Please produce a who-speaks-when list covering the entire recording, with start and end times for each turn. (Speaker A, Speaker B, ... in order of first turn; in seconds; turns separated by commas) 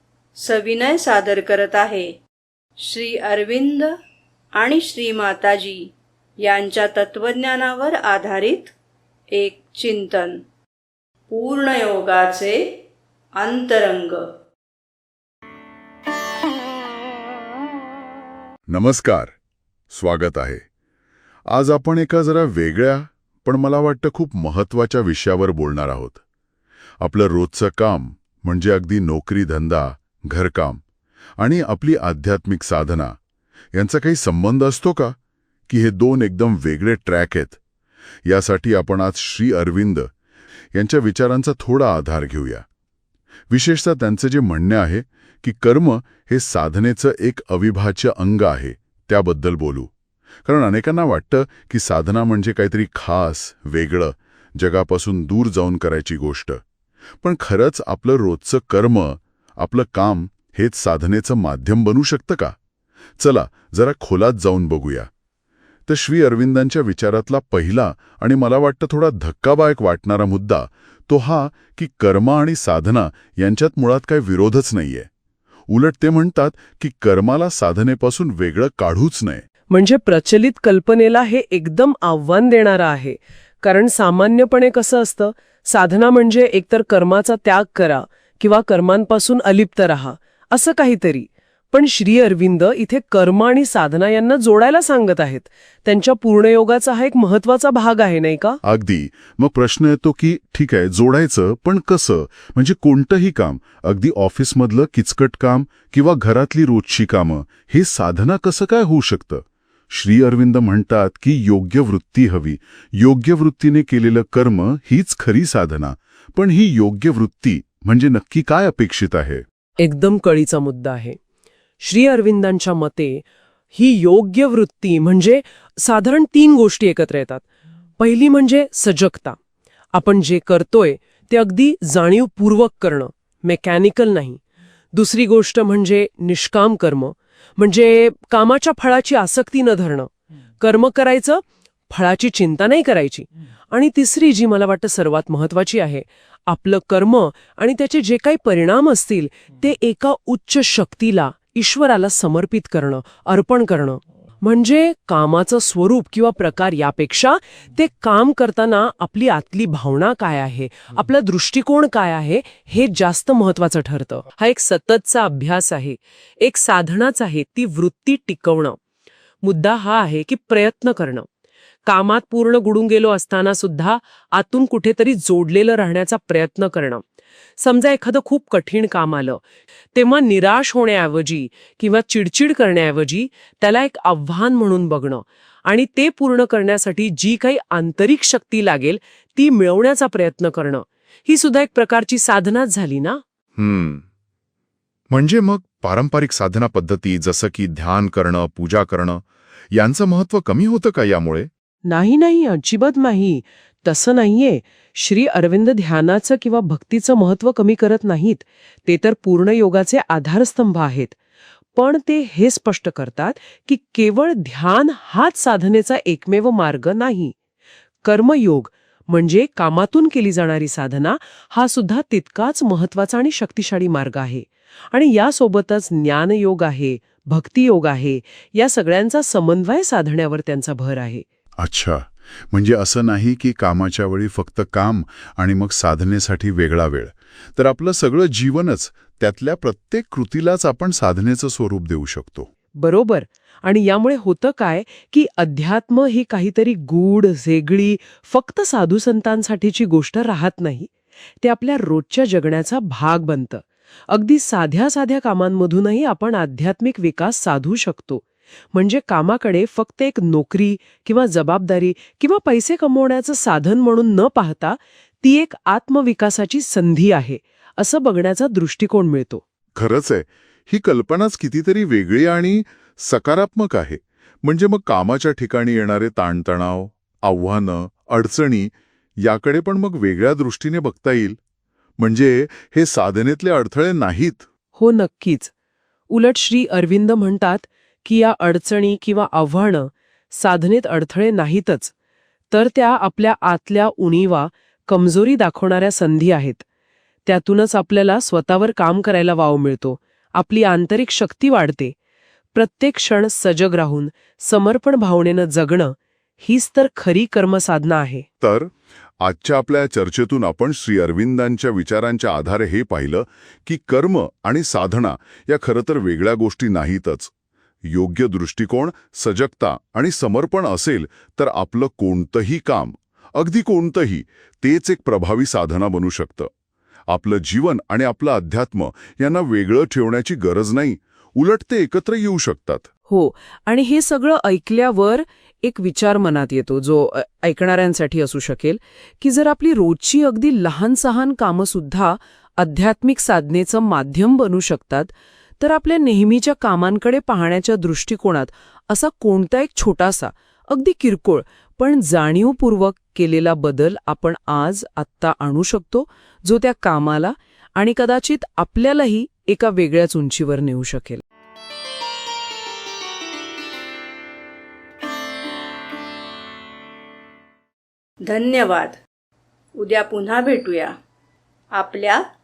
Speaker A: 0.4-2.1, Speaker A: 2.8-3.9, Speaker A: 4.6-8.7, Speaker A: 9.3-10.4, Speaker A: 11.3-12.6, Speaker A: 13.4-14.2, Speaker B: 18.7-19.3, Speaker B: 19.9-20.6, Speaker B: 21.5-26.2, Speaker B: 27.0-30.8, Speaker B: 31.4-33.2, Speaker B: 33.7-35.1, Speaker B: 35.7-37.6, Speaker B: 38.2-40.1, Speaker B: 40.7-42.6, Speaker B: 43.5-49.9, Speaker B: 50.4-56.6, Speaker B: 57.2-62.5, Speaker B: 63.2-65.1, Speaker B: 65.9-75.1, Speaker B: 75.7-79.4, Speaker C: 79.7-98.6, Speaker B: 98.6-119.4, Speaker C: 119.8-121.2, Speaker C: 121.8-127.4, Speaker C: 128.0-129.4, Speaker C: 129.9-134.4, Speaker C: 134.9-168.8, Speaker C: 169.4-171.3, Speaker C: 171.8-177.0, Speaker C: 177.6-193.2, Speaker B: 193.6-194.0, Speaker B: 195.1-201.5, Speaker C: 201.9-211.2, Speaker C: 211.7-217.3, Speaker C: 218.0-231.2, Speaker B: 231.6-242.5, Speaker C: 242.8-269.4, Speaker B: 269.7-281.4, Speaker B: 282.0-284.5, Speaker C: 284.7-285.5, Speaker C: 286.1-291.9, Speaker C: 292.5-296.6, Speaker C: 297.2-301.9, Speaker C: 302.5-308.2, Speaker B: 308.4-317.3, Speaker B: 317.9-326.5, Speaker B: 327.1-332.9, Speaker C: 333.1-361.2, Speaker A: 368.2-369.0, Speaker A: 369.8-370.9, Speaker A: 371.7-372.2